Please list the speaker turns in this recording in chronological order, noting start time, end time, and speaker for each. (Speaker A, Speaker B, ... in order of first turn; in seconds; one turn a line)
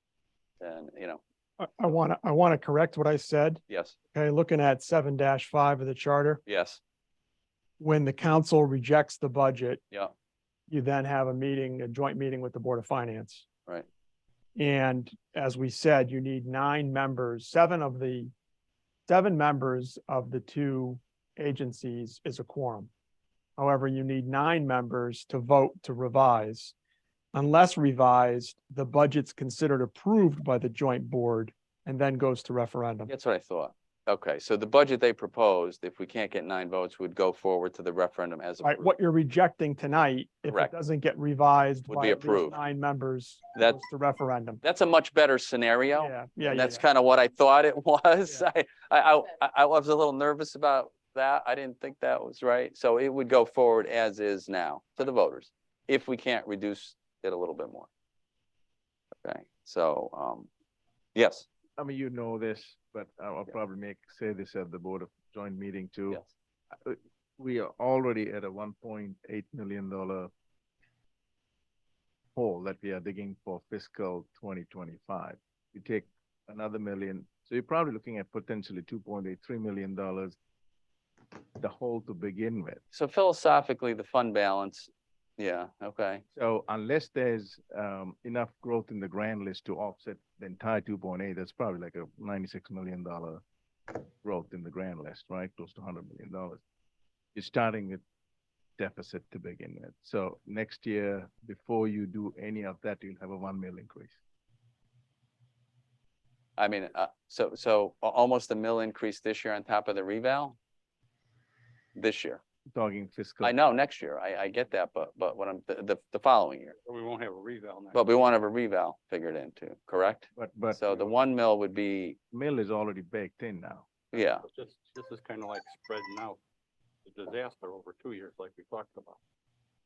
Speaker A: 0.6-1.2
Speaker B: 1.6-3.6
Speaker A: 3.7-4.0
Speaker B: 4.1-6.4
Speaker A: 6.5-6.8
Speaker B: 7.8-9.8
Speaker B: 10.7-13.5
Speaker B: 14.6-18.3
Speaker B: 19.1-22.9
Speaker B: 23.6-26.7
Speaker B: 27.3-33.1
Speaker A: 33.1-38.9
Speaker B: 38.6-44.6
Speaker A: 41.9-42.6
Speaker A: 44.6-57.9
Speaker B: 45.9-46.9
Speaker A: 59.2-60.5
Speaker A: 61.1-61.5
Speaker C: 61.8-70.3
Speaker C: 72.3-80.4
Speaker C: 81.6-82.8
Speaker A: 82.9-86.2
Speaker C: 86.3-93.4
Speaker C: 94.2-96.6
Speaker C: 97.3-98.0
Speaker C: 98.8-104.2
Speaker A: 106.6-110.6
Speaker A: 112.0-112.4
Speaker C: 112.7-113.5
Speaker A: 113.4-116.8
Speaker D: 116.8-118.3
Speaker A: 117.9-122.2
Speaker C: 120.3-121.2
Speaker C: 122.3-123.9
Speaker A: 124.1-124.5
Speaker D: 124.1-126.4
Speaker D: 127.0-129.2